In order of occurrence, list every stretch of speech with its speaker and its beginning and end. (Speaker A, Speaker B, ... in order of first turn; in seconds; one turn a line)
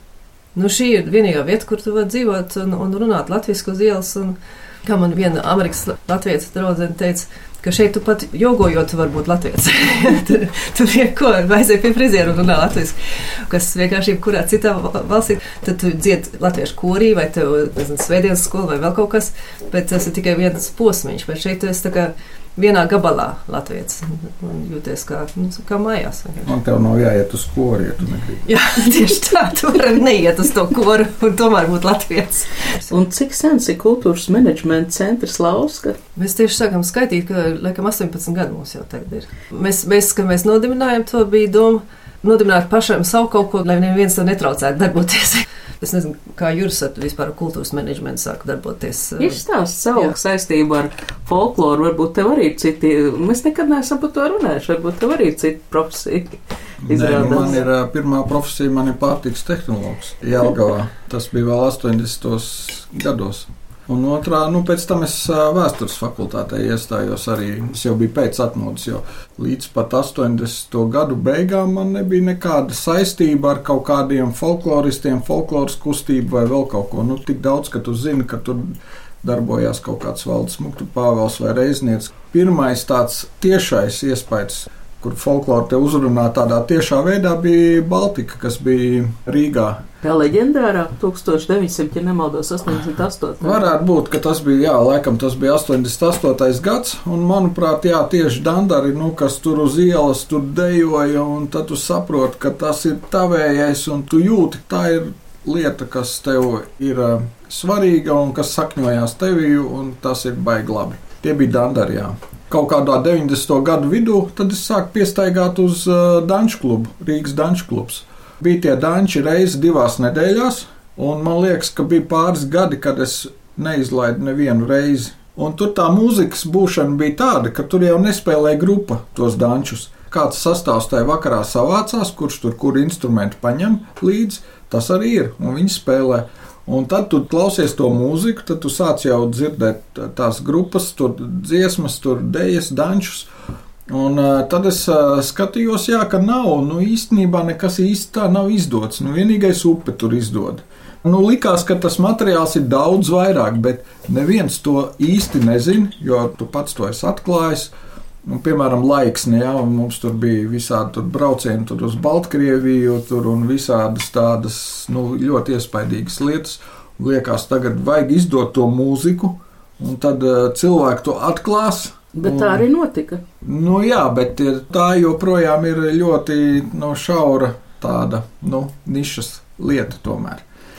Speaker A: 0.5-26.5
Speaker B: 26.4-28.4
Speaker A: 28.4-32.9
Speaker C: 32.9-36.0
Speaker A: 36.1-49.4
Speaker C: 49.2-57.6
Speaker B: 56.8-89.8
Speaker A: 57.3-57.5
Speaker C: 90.0-93.8
Speaker B: 93.4-143.3
Speaker B: 143.9-157.7
Speaker B: 158.2-172.7
Speaker C: 172.2-173.2
Speaker B: 173.4-180.4